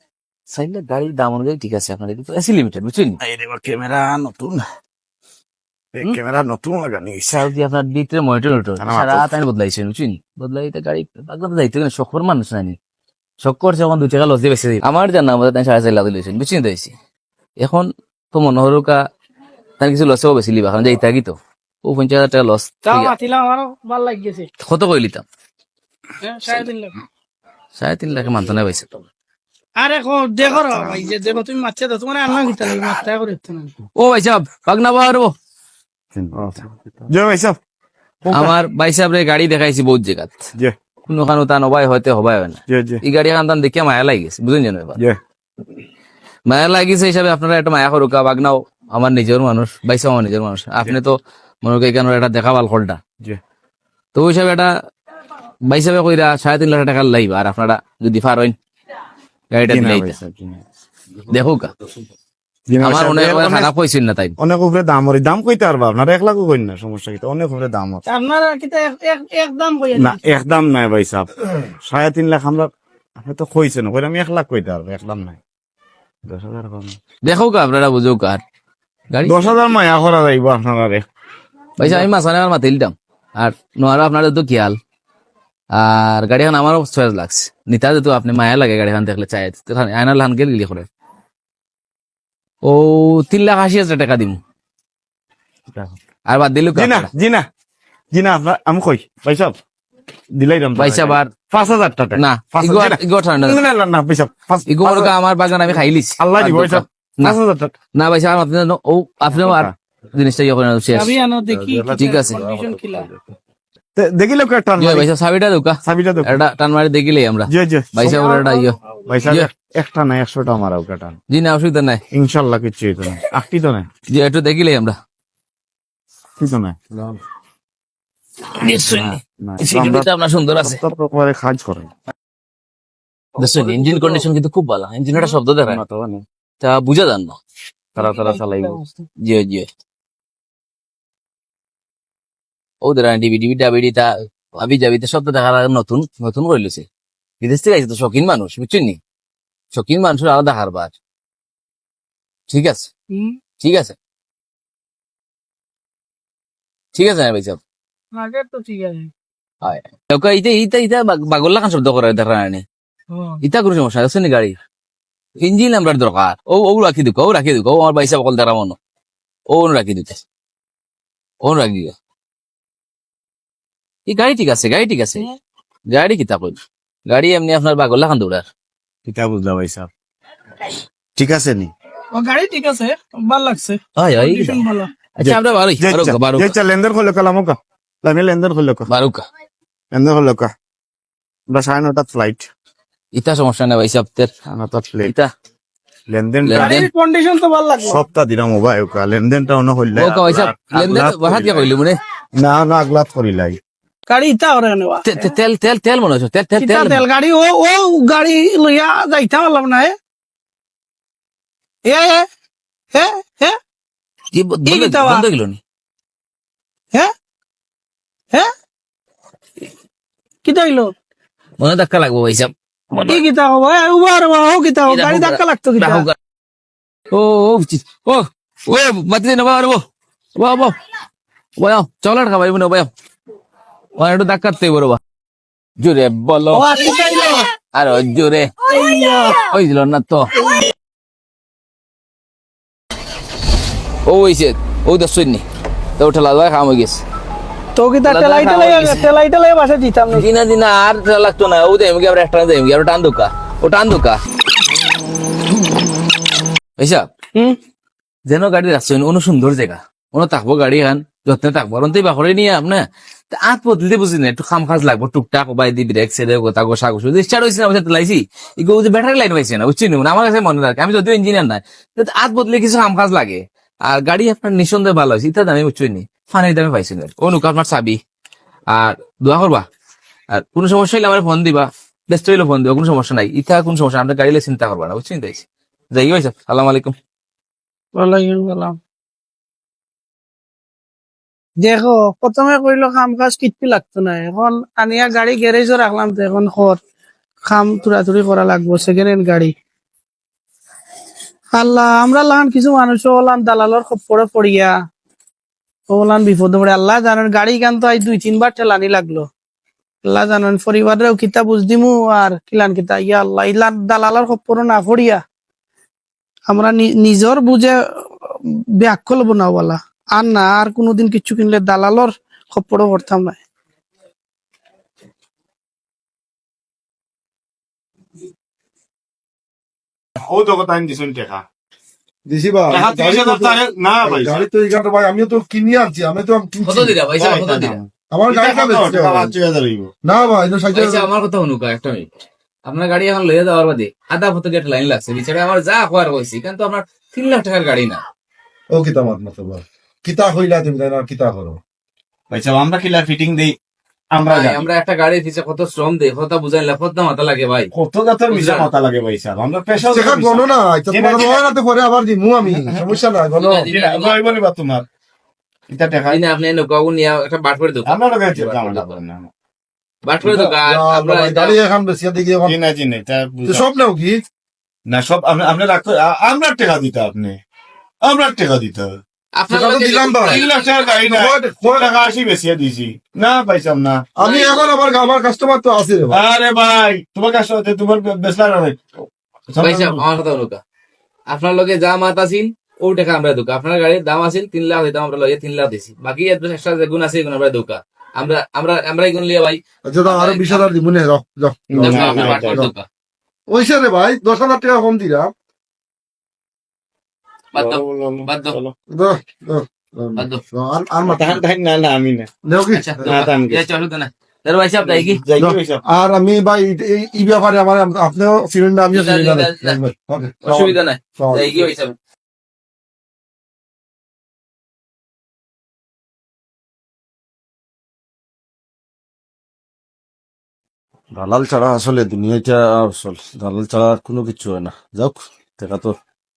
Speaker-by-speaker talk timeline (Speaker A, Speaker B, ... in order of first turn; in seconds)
Speaker A: 0.5-3.2, 7.3-12.8, 13.4-16.9, 17.6-19.0, 19.8-23.1, 24.6-25.2, 27.8-28.9, 34.0-35.3, 38.3-40.5, 41.1-45.0, 46.5-53.0, 54.1-54.7, 55.7-58.5, 59.5-60.1, 61.3-61.7, 62.8-64.3, 77.2-78.4, 79.1-79.5, 81.8-84.8, 85.7-90.9, 92.6-94.4, 96.3-97.1, 100.8-101.3, 102.2-103.6, 104.7-107.4, 108.0-111.2, 112.0-112.4, 114.8-118.8, 121.3-122.0, 124.1-125.0, 128.5-130.8, 133.4-135.8, 136.6-137.4, 139.2-139.7, 142.8-146.9, 147.4-149.0, 149.7-150.9, 152.5-152.9, 153.6-154.0, 156.9-157.6, 159.6-162.6, 163.4-164.6, 165.4-168.8, 169.5-170.2, 171.4-171.9, 174.1-175.3, 175.9-178.5, 184.0-184.6, 185.2-186.6, 188.9-189.2, 193.1-194.3, 196.4-196.8, 199.9-202.0, 205.1-207.0, 214.3-215.6, 221.6-223.2, 224.9-226.2, 227.1-229.8, 230.4-230.8, 231.6-232.9, 234.0-235.0, 235.8-236.7, 237.7-238.5, 239.4-240.3, 244.1-245.4, 246.0-247.0, 248.1-249.1, 250.1-254.2, 256.8-257.1, 258.3-278.0, 278.7-279.6, 280.3-286.9, 336.6-337.8, 340.7-342.1, 342.7-348.0, 354.2-357.7, 358.3-358.7, 363.4-364.2, 366.1-369.0, 370.1-371.6, 379.4-380.5, 384.2-384.7, 389.6-390.6, 391.3-400.6, 401.8-402.9, 407.5-408.6, 410.2-410.4, 412.7-415.2, 418.9-419.8, 420.4-422.0
Speaker B: 3.2-4.6, 5.9-7.5, 8.8-9.3, 36.1-36.5, 37.1-37.6, 38.2-38.5, 42.7-43.0, 59.6-60.6, 62.7-63.7, 64.4-68.0, 70.0-75.4, 76.3-77.0, 79.2-81.1, 81.8-82.1, 96.8-97.4, 98.1-99.6, 100.3-105.1, 106.2-107.7, 109.3-109.7, 114.0-115.1, 115.8-116.4, 117.5-118.4, 119.1-121.2, 122.1-123.9, 126.4-126.8, 128.8-130.1, 130.6-131.9, 135.7-136.2, 138.0-138.8, 179.1-179.9, 181.2-181.7, 185.2-188.9, 189.9-190.5, 191.5-192.5, 194.5-195.1, 196.1-196.9, 197.9-201.7, 202.4-203.6, 330.2-331.4, 332.7-334.4, 337.2-339.9, 352.3-353.5, 354.1-354.7, 357.7-361.5, 362.5-362.9, 363.6-364.9, 365.7-366.2, 367.9-369.3, 372.4-373.6, 374.9-377.4, 378.0-378.9, 380.2-384.0, 386.1-388.8, 389.5-390.0, 401.7-402.7, 407.6-408.7, 411.0-412.3, 413.0-413.7, 414.8-415.8
Speaker C: 22.9-24.5, 26.2-26.9, 29.8-33.7, 68.1-70.2, 110.9-113.1, 118.0-119.3, 133.4-134.2, 138.0-139.0, 153.1-153.4, 158.1-159.1, 163.1-163.4, 182.1-184.9, 196.6-198.0, 204.1-205.3, 206.6-210.0, 211.8-212.3, 212.9-213.6, 214.7-215.3, 220.4-220.9, 223.1-226.1, 236.5-237.5, 238.7-239.5, 247.8-250.3, 287.9-288.8, 291.6-296.8, 297.5-299.5, 301.6-304.7, 305.9-309.3, 310.0-315.2, 316.5-323.4
Speaker D: 36.3-37.0, 111.5-113.2, 126.9-127.2, 332.3-337.0, 338.1-339.3, 340.0-341.1, 348.7-351.6, 359.8-363.6, 370.2-372.6, 373.5-374.2, 379.5-380.4, 381.1-381.9, 384.2-386.2, 399.9-402.7, 403.5-405.3, 408.9-411.4, 412.4-413.2, 415.4-421.7, 431.1-436.0